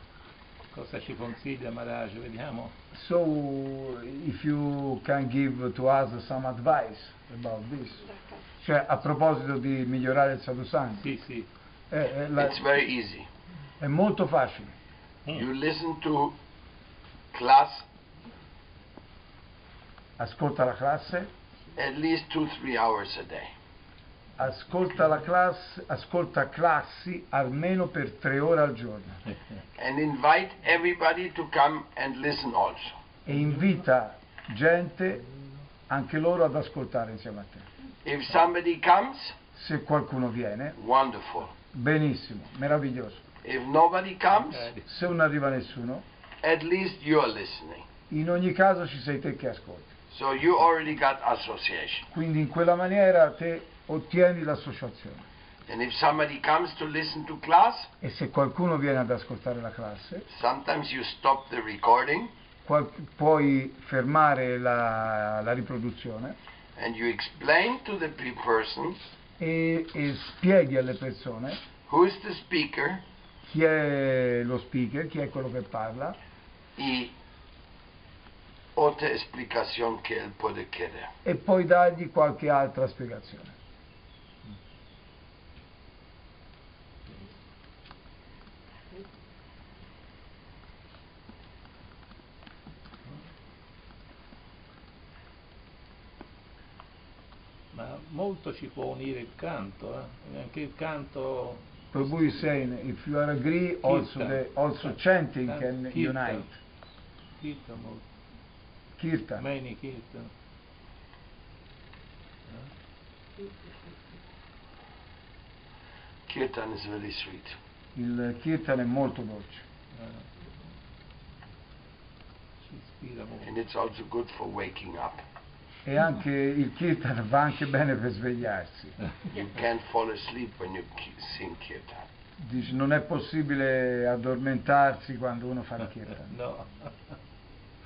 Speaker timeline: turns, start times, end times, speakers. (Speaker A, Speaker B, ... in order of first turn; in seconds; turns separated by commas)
Speaker A: 0.7-2.7, Speaker B: 2.9-11.1, Speaker A: 11.0-11.5, Speaker B: 11.9-12.6, Speaker C: 12.3-13.3, Speaker B: 13.8-14.7, Speaker C: 15.3-16.4, Speaker C: 17.3-17.9, Speaker B: 20.2-21.3, Speaker C: 21.7-23.5, Speaker B: 24.4-29.2, Speaker C: 29.8-33.0, Speaker B: 33.2-35.2, Speaker B: 35.9-37.7, Speaker C: 38.0-39.4, Speaker B: 39.5-40.8, Speaker C: 40.7-41.5, Speaker B: 41.7-43.2, Speaker C: 43.4-44.7, Speaker A: 44.4-44.8, Speaker B: 44.8-46.0, Speaker C: 46.4-47.9, Speaker B: 48.1-49.9, Speaker C: 50.1-52.1, Speaker B: 52.1-55.3, Speaker C: 55.7-57.9, Speaker B: 58.0-60.2, Speaker C: 60.3-62.3, Speaker B: 62.6-66.3, Speaker C: 66.8-69.0, Speaker B: 69.4-71.6, Speaker C: 71.8-73.0, Speaker B: 73.4-76.2, Speaker C: 76.8-77.1, Speaker C: 78.7-81.1, Speaker B: 81.2-83.5, Speaker A: 97.7-102.4, Speaker B: 101.9-106.5, Speaker A: 103.8-106.5, Speaker A: 107.4-108.0, Speaker B: 109.0-109.4, Speaker A: 109.4-110.3, Speaker C: 116.3-117.6, Speaker B: 117.9-119.6, Speaker A: 119.9-120.3, Speaker A: 122.6-123.5, Speaker C: 123.4-125.2, Speaker B: 125.8-129.0, Speaker C: 129.3-132.1, Speaker B: 132.4-136.3, Speaker A: 136.3-136.9